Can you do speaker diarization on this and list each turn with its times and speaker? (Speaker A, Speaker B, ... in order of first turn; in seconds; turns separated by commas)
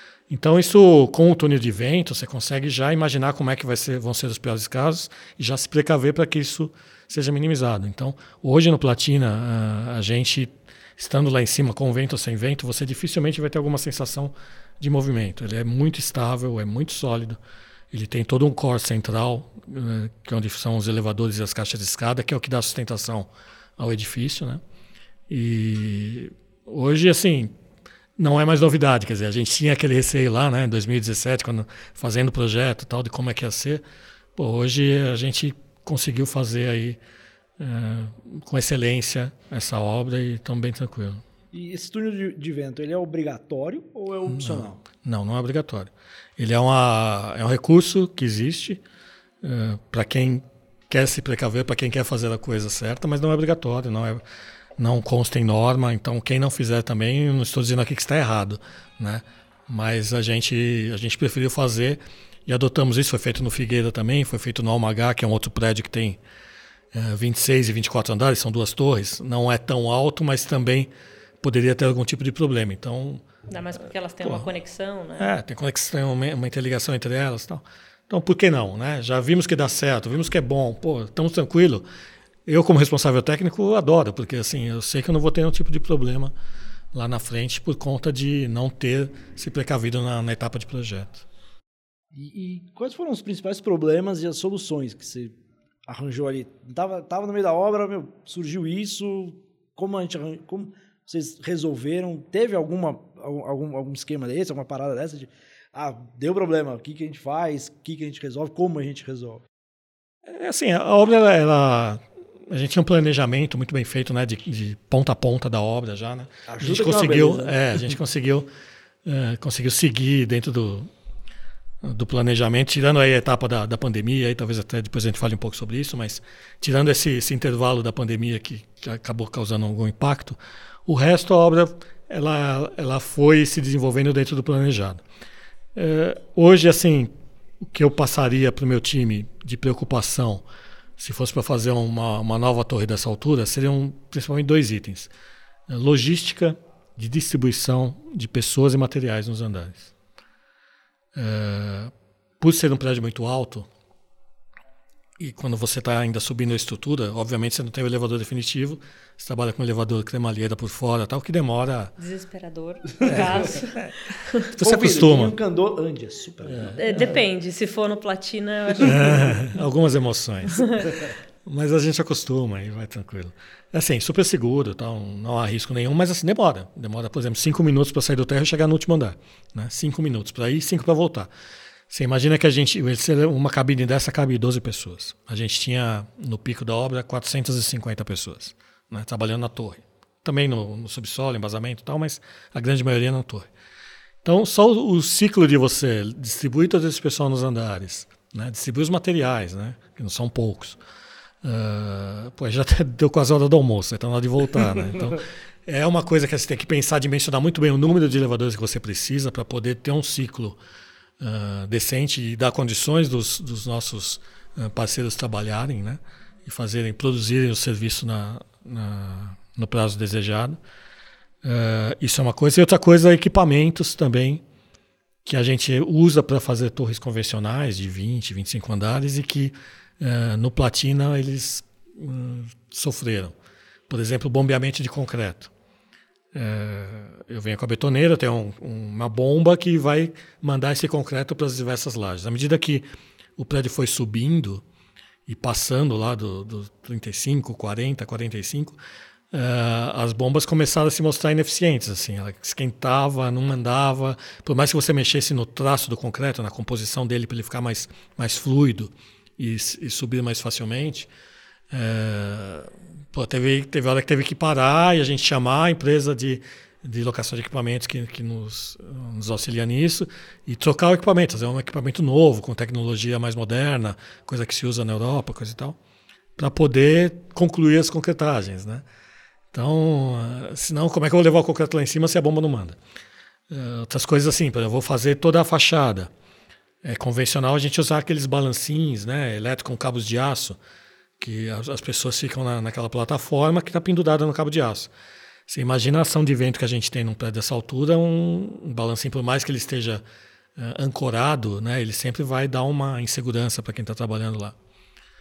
Speaker A: 0.3-17.4, Speaker A: 17.9-24.6, Speaker A: 25.3-27.5, Speaker A: 28.2-33.8, Speaker A: 34.4-37.0, Speaker A: 37.6-41.2, Speaker B: 41.5-44.8, Speaker A: 44.3-48.8, Speaker A: 49.4-54.2, Speaker A: 54.8-66.2, Speaker A: 66.9-70.9, Speaker A: 71.4-73.2, Speaker C: 73.5-75.3, Speaker A: 75.2-81.8, Speaker A: 82.5-86.3, Speaker A: 86.9-91.2, Speaker B: 92.1-109.5, Speaker A: 110.3-118.5, Speaker B: 116.5-117.9, Speaker A: 119.0-120.9, Speaker A: 121.8-135.0, Speaker A: 135.7-140.4, Speaker A: 141.0-145.1, Speaker A: 145.7-149.9, Speaker A: 151.1-153.7, Speaker A: 155.2-161.9, Speaker C: 162.0-164.5, Speaker B: 163.0-163.3, Speaker A: 163.1-163.9, Speaker A: 164.5-165.3, Speaker B: 164.6-166.8, Speaker A: 166.4-167.0, Speaker C: 166.8-169.3, Speaker A: 168.8-170.9, Speaker C: 170.5-170.9, Speaker A: 171.4-181.3, Speaker A: 181.9-193.5, Speaker A: 194.2-200.8, Speaker A: 201.4-210.6, Speaker A: 211.2-220.6, Speaker A: 221.4-224.4, Speaker A: 225.2-233.3, Speaker A: 233.9-235.5, Speaker A: 236.3-242.8, Speaker A: 243.4-244.6, Speaker A: 245.3-248.8, Speaker A: 249.3-261.1, Speaker A: 261.7-275.8, Speaker A: 276.4-278.8, Speaker A: 279.5-282.8, Speaker A: 283.5-286.1, Speaker A: 286.8-290.6, Speaker A: 291.2-294.9, Speaker A: 295.5-300.0, Speaker A: 300.6-304.5